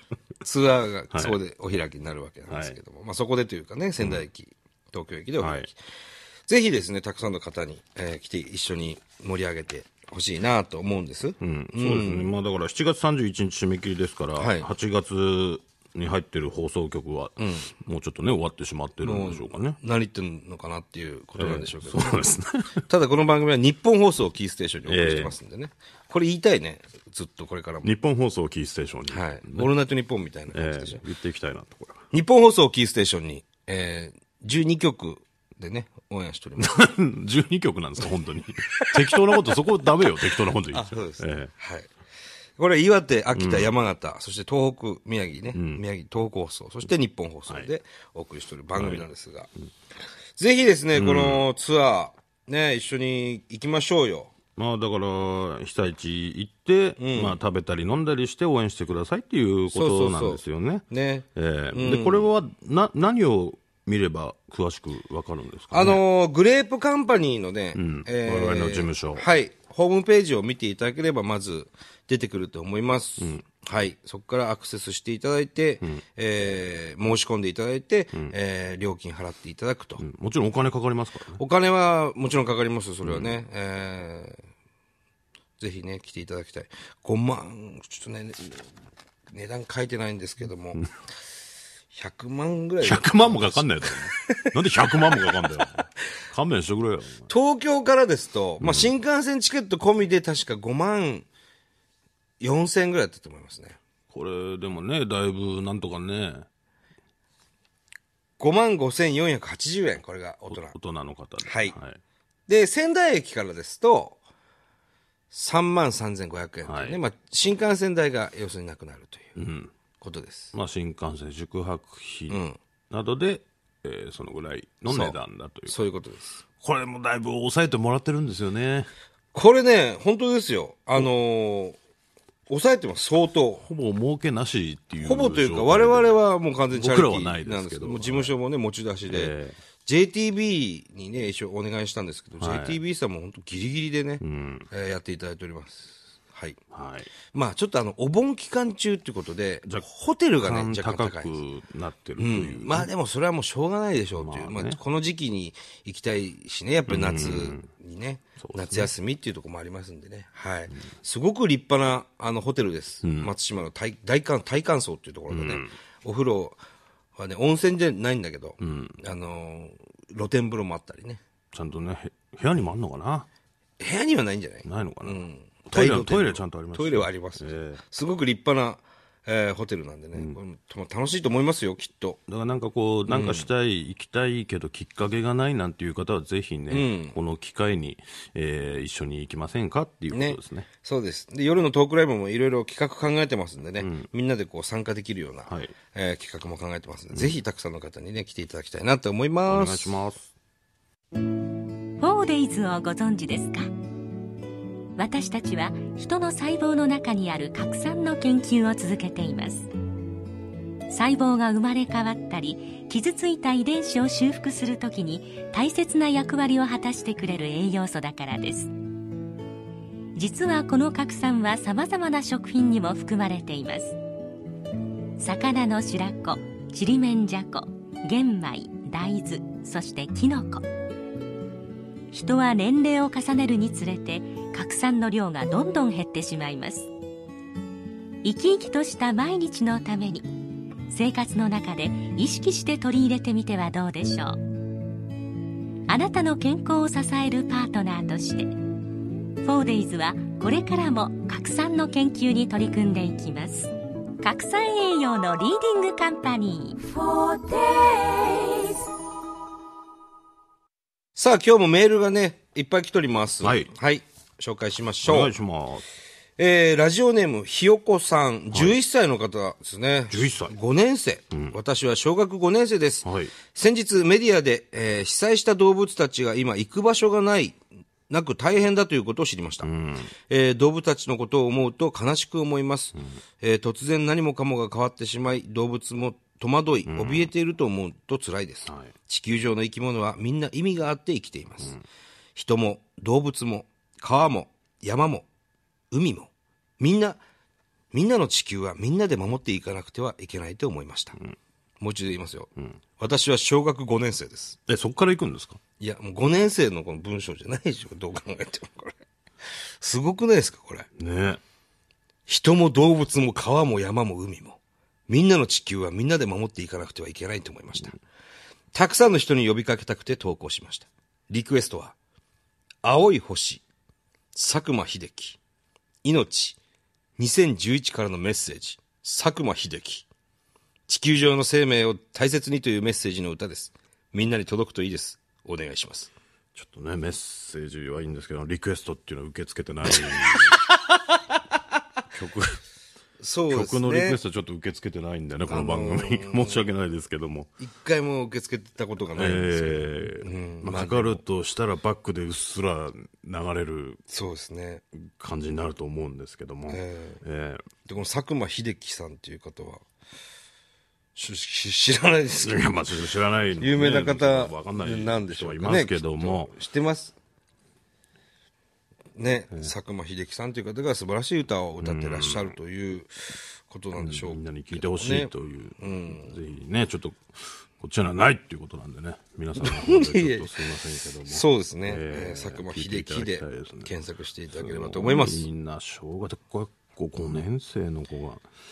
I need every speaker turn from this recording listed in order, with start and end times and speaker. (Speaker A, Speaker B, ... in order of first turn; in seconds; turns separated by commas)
Speaker A: 0.4-5.8, Speaker B: 1.1-1.4, Speaker B: 2.5-2.8, Speaker B: 5.4-5.7, Speaker A: 6.5-12.3, Speaker B: 11.4-19.8, Speaker A: 14.4-14.7, Speaker A: 17.4-17.7, Speaker A: 19.0-22.3, Speaker B: 21.4-22.8, Speaker A: 22.9-27.9, Speaker B: 24.9-25.4, Speaker B: 27.8-29.7, Speaker A: 29.1-31.0, Speaker B: 30.5-32.1, Speaker A: 32.1-36.9, Speaker B: 36.6-41.5, Speaker A: 40.7-41.9, Speaker A: 42.6-49.5, Speaker B: 43.3-43.7, Speaker B: 45.5-45.8, Speaker B: 48.7-49.0, Speaker A: 50.4-54.3, Speaker B: 50.9-51.4, Speaker B: 54.5-66.0, Speaker A: 57.0-57.4, Speaker A: 59.7-62.3, Speaker A: 65.7-80.0, Speaker B: 67.7-69.2, Speaker B: 73.2-73.4, Speaker B: 80.0-81.4, Speaker A: 81.4-84.4, Speaker B: 83.0-83.4, Speaker A: 85.6-88.7, Speaker A: 89.3-90.8, Speaker A: 91.9-95.3, Speaker B: 92.8-97.3, Speaker A: 97.3-101.2, Speaker B: 98.6-98.9, Speaker A: 102.4-103.8, Speaker B: 104.1-106.5, Speaker A: 108.4-110.7, Speaker B: 110.5-112.0, Speaker A: 111.4-111.8, Speaker A: 112.5-114.2, Speaker A: 115.3-119.4, Speaker B: 116.6-117.0, Speaker B: 119.3-119.7, Speaker A: 120.0-120.5, Speaker B: 120.5-125.8, Speaker A: 122.3-122.6, Speaker A: 124.9-125.2, Speaker A: 125.7-126.4, Speaker B: 126.6-128.9, Speaker A: 129.3-131.8, Speaker A: 132.5-133.7, Speaker B: 133.6-136.2, Speaker A: 135.0-146.6, Speaker B: 136.7-138.4, Speaker B: 139.1-139.6, Speaker B: 142.4-142.8, Speaker B: 144.2-144.7, Speaker B: 146.7-147.1, Speaker A: 147.3-151.4, Speaker B: 150.4-152.9, Speaker A: 152.2-166.6, Speaker B: 154.2-154.8, Speaker B: 156.9-157.7, Speaker B: 158.4-158.9, Speaker B: 163.0-163.3, Speaker B: 165.3-165.7, Speaker A: 167.2-171.2, Speaker B: 168.6-169.0, Speaker B: 171.5-173.3, Speaker A: 173.8-182.2, Speaker B: 174.6-177.8, Speaker B: 180.1-180.4, Speaker B: 182.3-190.7, Speaker A: 183.1-183.5, Speaker A: 186.7-187.2, Speaker A: 190.1-200.0, Speaker B: 193.8-194.1, Speaker B: 195.5-195.8, Speaker B: 197.1-197.4, Speaker B: 199.5-200.3, Speaker C: 202.0-203.7, Speaker C: 205.0-209.7, Speaker C: 210.9-218.7, Speaker C: 220.2-224.0, Speaker C: 225.2-230.6, Speaker C: 232.1-236.9, Speaker C: 238.2-240.3, Speaker C: 240.9-244.4, Speaker C: 245.9-248.5, Speaker C: 249.4-258.8, Speaker A: 261.1-265.3, Speaker B: 263.4-263.7, Speaker B: 265.0-265.8, Speaker A: 266.4-279.7, Speaker B: 268.5-268.8, Speaker B: 270.1-270.6, Speaker B: 271.3-271.6, Speaker B: 273.0-273.3, Speaker B: 279.6-280.1, Speaker A: 280.3-291.8, Speaker B: 286.9-287.3, Speaker B: 288.6-288.9, Speaker A: 292.3-295.3, Speaker A: 295.9-297.2, Speaker A: 297.9-301.2, Speaker A: 301.8-304.6, Speaker B: 304.7-305.6, Speaker A: 305.8-308.9, Speaker A: 309.8-310.9, Speaker B: 311.0-311.4, Speaker A: 312.3-317.9, Speaker A: 318.7-321.9, Speaker A: 322.8-323.6, Speaker A: 324.3-325.4, Speaker A: 326.0-326.6, Speaker A: 327.2-330.1, Speaker A: 330.9-336.1, Speaker B: 336.5-340.6, Speaker B: 342.1-342.6, Speaker A: 343.2-344.2, Speaker B: 343.5-347.5, Speaker A: 345.5-346.6, Speaker A: 347.6-351.2, Speaker B: 349.1-354.0, Speaker A: 354.1-354.8, Speaker B: 354.9-357.6, Speaker A: 356.7-357.2, Speaker A: 357.8-359.8, Speaker A: 361.1-362.7, Speaker B: 362.3-366.5, Speaker A: 363.6-367.1, Speaker A: 369.1-376.4, Speaker B: 371.8-372.5, Speaker B: 373.9-383.9, Speaker A: 379.6-380.6, Speaker A: 381.2-385.4, Speaker B: 384.5-388.4